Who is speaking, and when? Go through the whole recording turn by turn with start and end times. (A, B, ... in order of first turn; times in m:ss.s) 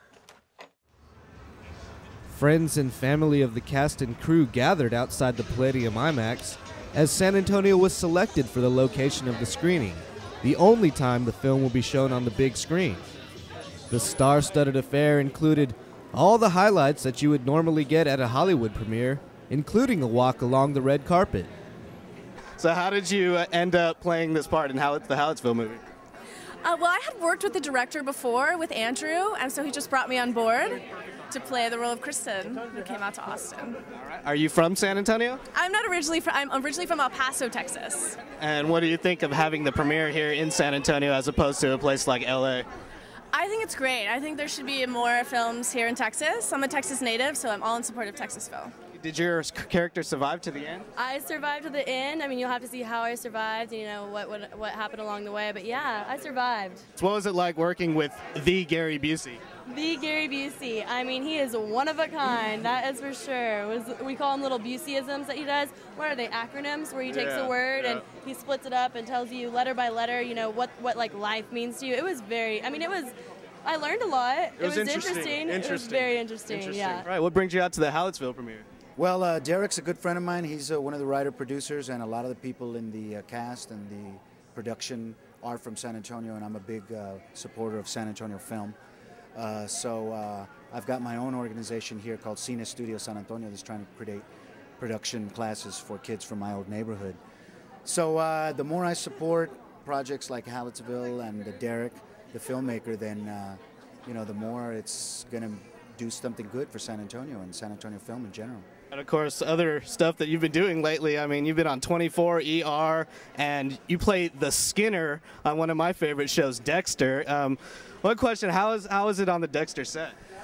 0:02.3-0:13.0 A
0:13.9-0:21.5 A
0:22.6-0:25.8 B
0:26.6-0:33.8 C
0:33.9-0:35.4 B
0:35.5-0:38.2 C
0:38.3-0:42.6 B
0:43.3-0:48.7 C
0:48.9-0:50.8 B
0:51.0-0:56.8 D
0:57.0-0:59.4 B
0:59.7-1:13.1 D
1:07.1-1:08.0 B
1:13.6-1:17.1 D
1:14.6-1:18.6 B
1:19.0-1:28.8 E
1:29.4-1:34.2 E
1:34.8-1:37.2 E
1:37.8-1:48.7 E
1:48.9-2:00.1 B